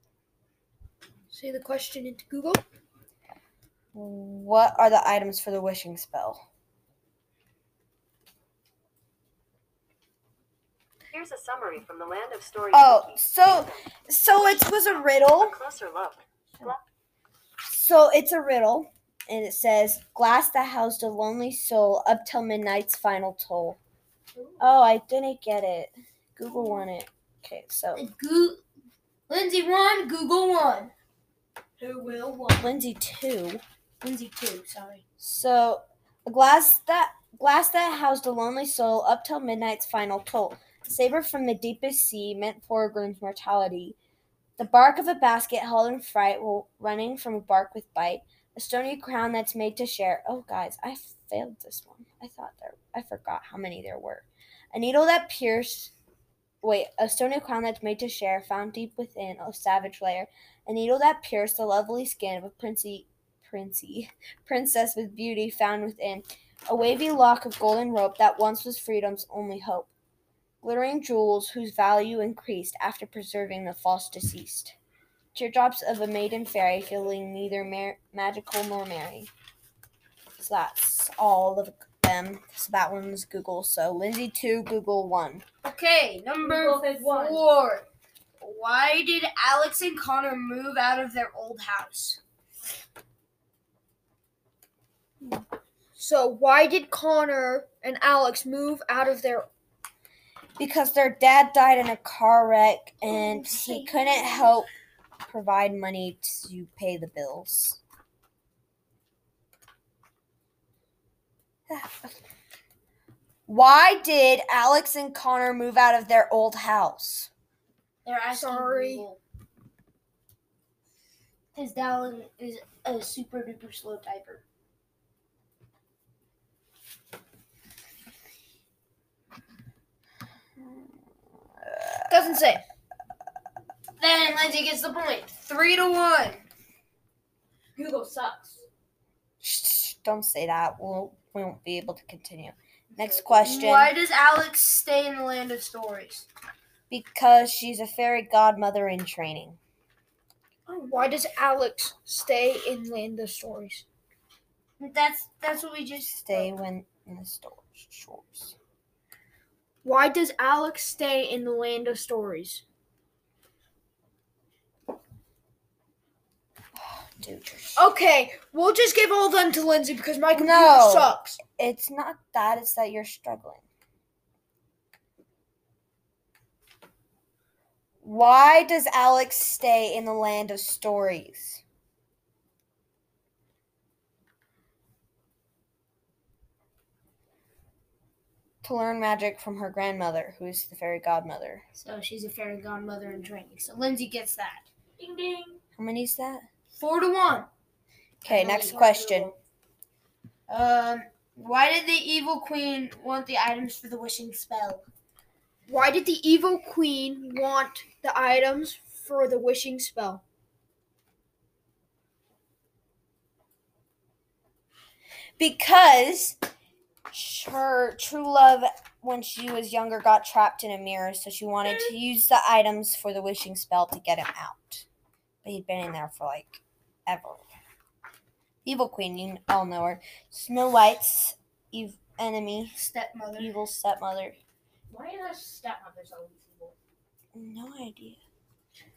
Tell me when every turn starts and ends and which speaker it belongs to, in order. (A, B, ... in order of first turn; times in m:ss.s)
0:01.3-0:02.6 A
0:03.9-0:06.4 B
0:11.1-0:13.1 C
0:12.7-0:15.6 B
0:15.5-0:16.2 C
0:17.7-0:23.8 B
0:24.6-0:28.1 B
0:28.0-0:28.6 D
0:29.3-0:30.9 D
0:31.8-0:32.6 D
0:32.6-0:33.6 B
0:34.0-0:35.0 D
0:35.2-0:44.0 B
0:44.6-0:55.9 B
0:56.6-1:09.9 B
1:10.6-1:14.8 B
1:15.4-1:19.3 B
1:20.4-1:25.4 B
1:25.6-1:27.8 D
1:26.4-1:27.5 E
1:28.4-1:32.2 D
1:36.0-1:39.5 A
1:40.6-1:44.7 B
1:43.1-1:44.4 D
1:45.3-1:47.8 B
1:51.7-1:52.2 B
1:53.5-1:57.3 B
1:58.0-1:59.2 D
1:58.3-1:59.1 A
2:01.6-2:04.4 D
2:11.6-2:12.1 B
2:12.1-2:12.6 A
2:14.0-2:16.4 D
2:17.8-2:18.6 E
2:19.4-2:23.9 B
2:23.4-2:26.3 D
2:26.9-2:29.6 B
2:30.7-2:33.8 A
2:34.8-2:36.5 D
2:36.2-2:38.6 B
2:39.8-2:42.6 A
2:46.8-2:47.8 B
2:47.8-2:51.4 A
2:50.3-2:53.6 B
2:58.0-3:01.6 B
3:08.6-3:11.6 B
3:11.8-3:15.6 D
3:15.8-3:16.4 B
3:16.7-3:17.5 D
3:18.2-3:19.3 B
3:18.3-3:19.4 D
3:20.5-3:24.8 D
3:25.7-3:30.2 A
3:35.4-3:36.4 B
3:37.1-3:44.9 B
3:45.4-3:47.4 B
3:48.6-3:52.8 B
3:52.8-3:53.5 D
3:53.4-3:54.4 B
3:54.9-3:56.8 E
3:57.3-3:58.2 B